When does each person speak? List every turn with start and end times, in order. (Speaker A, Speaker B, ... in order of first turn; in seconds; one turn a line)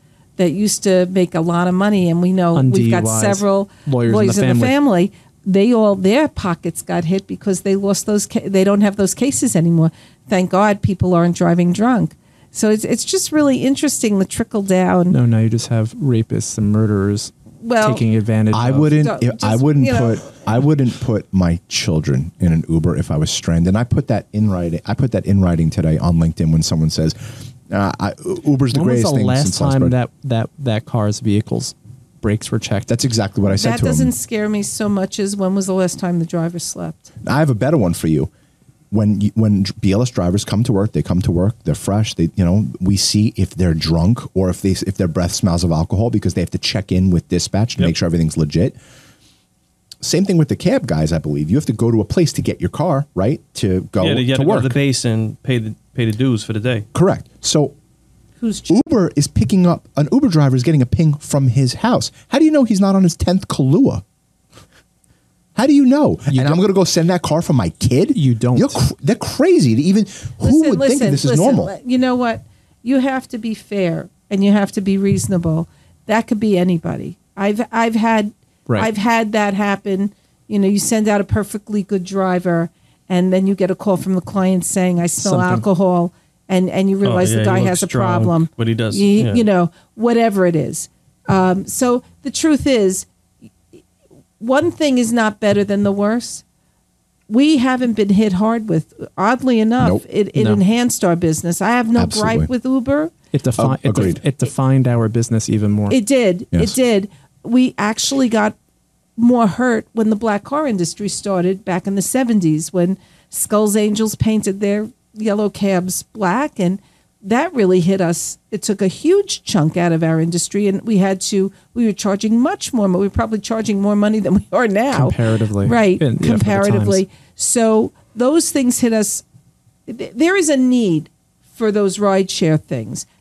Speaker A: 0.4-15.2
Speaker B: 2.5-4.7
Speaker B: 15.1-19.0
Speaker A: 17.6-18.0
Speaker C: 18.5-29.9
Speaker A: 19.0-20.3
Speaker B: 28.7-32.9
Speaker C: 32.9-34.1
Speaker A: 33.5-37.1
Speaker C: 37.2-38.3
Speaker C: 38.9-48.8
Speaker C: 50.0-54.8
Speaker D: 54.0-56.9
Speaker C: 56.9-57.7
Speaker A: 58.4-58.8
Speaker C: 58.7-64.0
Speaker C: 65.5-71.7
Speaker B: 66.3-66.6
Speaker B: 68.1-68.8
Speaker A: 70.4-93.1
Speaker B: 85.2-85.6
Speaker D: 87.0-89.4
Speaker A: 94.4-96.4
Speaker A: 97.3-103.1
Speaker B: 100.3-100.6
Speaker C: 102.0-102.5
Speaker B: 103.3-106.0
Speaker C: 103.6-104.2
Speaker A: 105.9-108.5
Speaker A: 109.2-129.2
Speaker B: 124.9-127.0
Speaker A: 129.9-133.1